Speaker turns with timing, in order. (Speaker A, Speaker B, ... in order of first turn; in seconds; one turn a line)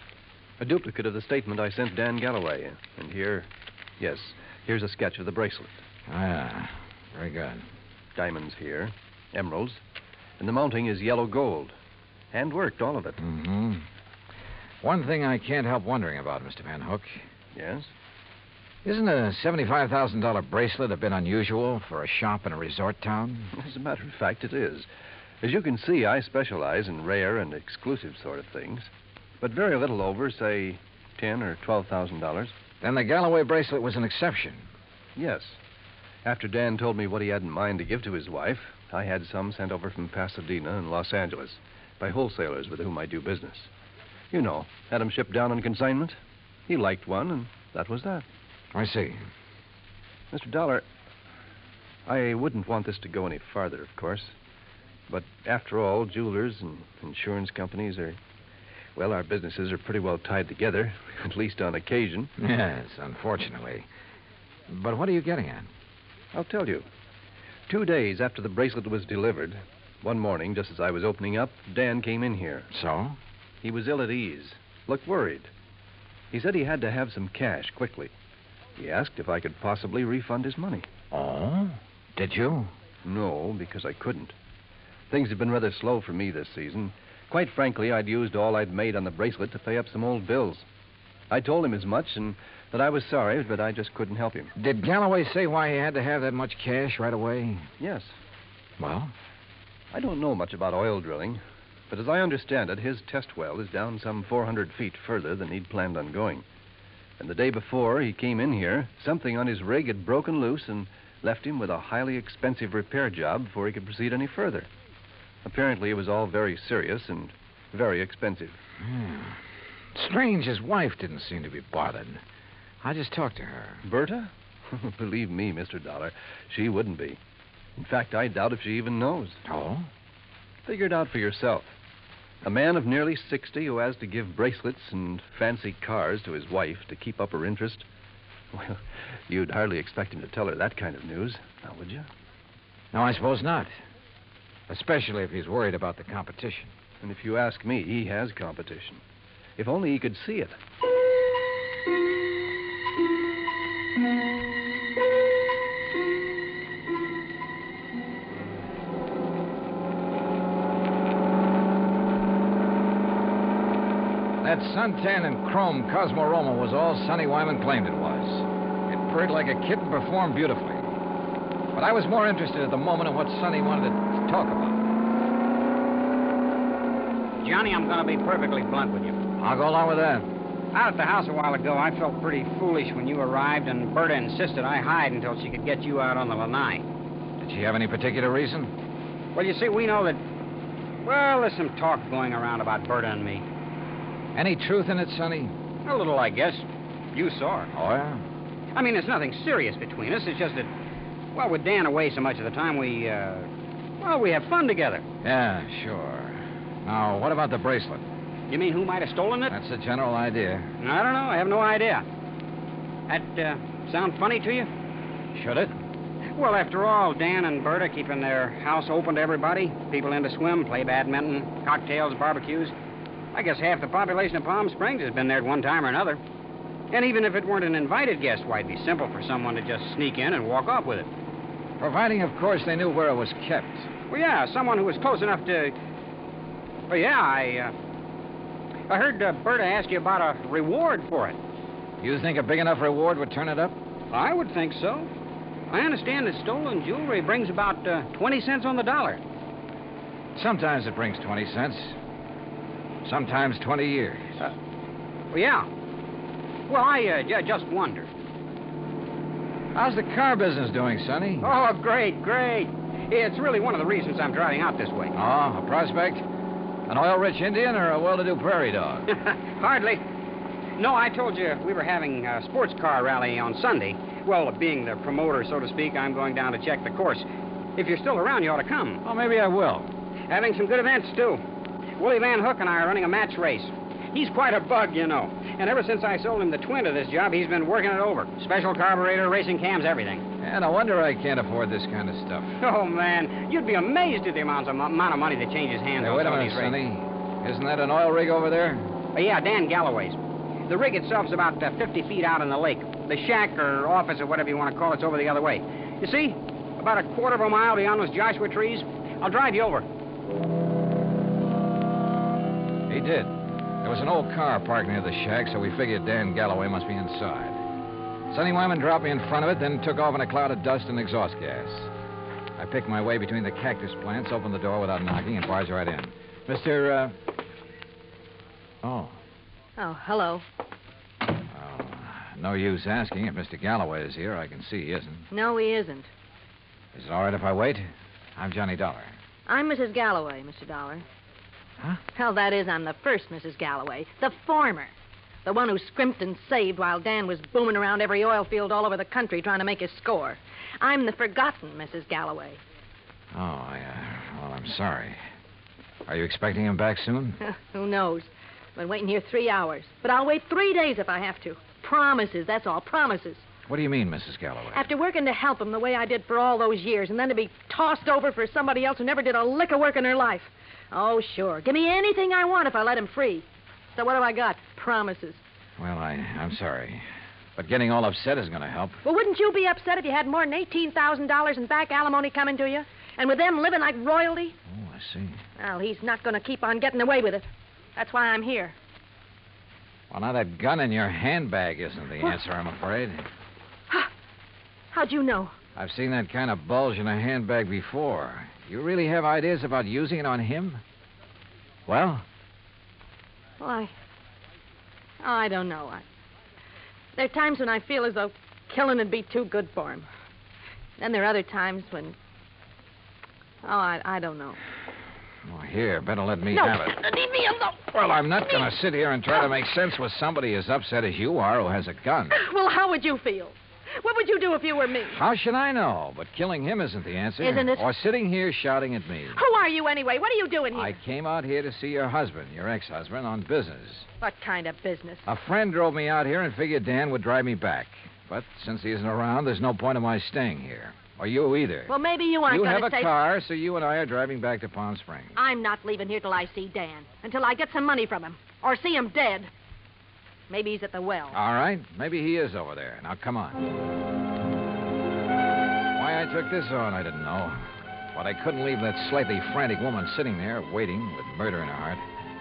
Speaker A: 0.6-5.8
Speaker B: 6.1-7.6
Speaker A: 8.1-9.8
Speaker A: 10.4-11.7
Speaker A: 12.3-13.2
Speaker B: 13.2-13.8
Speaker B: 14.8-17.2
Speaker A: 17.5-17.9
Speaker B: 18.8-23.5
Speaker A: 23.5-24.9
Speaker A: 25.4-28.9
Speaker A: 29.4-32.5
Speaker B: 32.8-34.6
Speaker A: 35.1-35.6
Speaker A: 36.2-43.7
Speaker A: 44.3-48.2
Speaker B: 48.7-49.2
Speaker A: 50.3-50.8
Speaker A: 52.1-54.3
Speaker A: 55.1-58.2
Speaker A: 59.0-62.3
Speaker B: 62.4-63.9
Speaker B: 64.7-65.7
Speaker A: 66.3-66.8
Speaker A: 67.7-72.7
Speaker B: 72.7-73.2
Speaker A: 73.6-75.5
Speaker A: 76.3-78.1
Speaker A: 78.8-80.9
Speaker B: 81.1-82.7
Speaker A: 83.0-84.3
Speaker A: 85.1-90.6
Speaker A: 91.3-94.5
Speaker B: 94.5-97.7
Speaker A: 97.8-98.2
Speaker B: 98.8-99.1
Speaker A: 99.9-106.4
Speaker A: 107.2-114.7
Speaker A: 115.4-118.6
Speaker B: 118.8-119.4
Speaker B: 119.9-122.2
Speaker B: 122.8-123.8
Speaker A: 123.8-127.2
Speaker A: 127.8-129.4
Speaker B: 129.4-129.9
Speaker A: 130.7-131.8
Speaker A: 132.4-137.9
Speaker A: 138.5-142.1
Speaker B: 142.9-143.7
Speaker B: 144.7-146.7
Speaker A: 147.0-149.0
Speaker A: 149.6-150.6
Speaker B: 164.4-170.9
Speaker B: 171.7-174.8
Speaker C: 177.4-179.2
Speaker B: 179.4-180.3
Speaker C: 180.7-186.8
Speaker B: 187.4-188.7
Speaker C: 189.3-190.2
Speaker C: 191.0-193.4
Speaker B: 194.3-195.5
Speaker C: 195.8-197.7
Speaker B: 197.7-198.2
Speaker C: 198.7-200.7
Speaker C: 201.3-205.0
Speaker B: 205.2-208.0
Speaker C: 208.5-209.5
Speaker B: 209.5-210.7
Speaker C: 210.8-212.0
Speaker C: 213.1-214.7
Speaker B: 215.3-215.8
Speaker C: 216.3-222.7
Speaker C: 223.3-226.2
Speaker C: 226.9-231.1
Speaker B: 231.8-233.9
Speaker C: 234.1-235.8
Speaker C: 236.9-237.7
Speaker C: 238.9-241.4
Speaker B: 242.0-243.7
Speaker C: 244.1-245.1
Speaker C: 245.7-249.2
Speaker B: 250.3-251.9
Speaker B: 253.0-254.4
Speaker C: 255.3-255.7
Speaker C: 256.7-258.1
Speaker B: 259.7-261.5
Speaker C: 261.4-265.1
Speaker B: 265.1-266.2
Speaker B: 266.9-269.1
Speaker C: 269.1-270.0
Speaker C: 270.8-279.0
Speaker B: 279.0-279.9
Speaker C: 280.3-281.4
Speaker C: 282.0-290.2
Speaker B: 290.4-292.6
Speaker C: 292.6-296.8
Speaker B: 296.0-298.9
Speaker C: 299.1-309.9
Speaker B: 312.9-317.6
Speaker B: 318.3-321.9
Speaker B: 322.6-327.1
Speaker B: 328.8-329.2
Speaker D: 329.8-330.4
Speaker B: 331.5-335.3
Speaker D: 335.3-336.1
Speaker B: 336.9-339.1
Speaker D: 339.5-341.0
Speaker D: 342.1-344.9
Speaker D: 345.4-352.6
Speaker B: 353.3-355.2
Speaker B: 356.1-357.4
Speaker D: 357.4-363.4
Speaker B: 363.7-364.9
Speaker D: 364.7-375.4
Speaker B: 375.8-377.0
Speaker B: 377.6-379.0
Speaker D: 379.0-384.5
Speaker B: 384.7-385.4
Speaker D: 385.6-388.7
Speaker B: 390.1-393.3
Speaker D: 394.9-395.5
Speaker B: 395.8-400.8
Speaker B: 401.9-402.2
Speaker D: 403.6-403.9
Speaker D: 405.2-406.0
Speaker D: 407.1-410.1
Speaker D: 411.0-412.1
Speaker D: 413.6-414.6
Speaker B: 415.4-417.0
Speaker D: 416.5-417.8
Speaker B: 417.9-422.4
Speaker D: 422.3-425.2
Speaker B: 425.1-429.4
Speaker D: 427.4-427.8
Speaker D: 429.3-430.9
Speaker B: 430.7-434.1
Speaker D: 434.2-435.2
Speaker B: 435.2-441.9
Speaker D: 441.9-443.1
Speaker B: 442.5-445.3
Speaker D: 445.4-449.5
Speaker D: 450.5-451.4
Speaker B: 451.3-453.6
Speaker B: 455.9-457.6
Speaker B: 458.1-462.0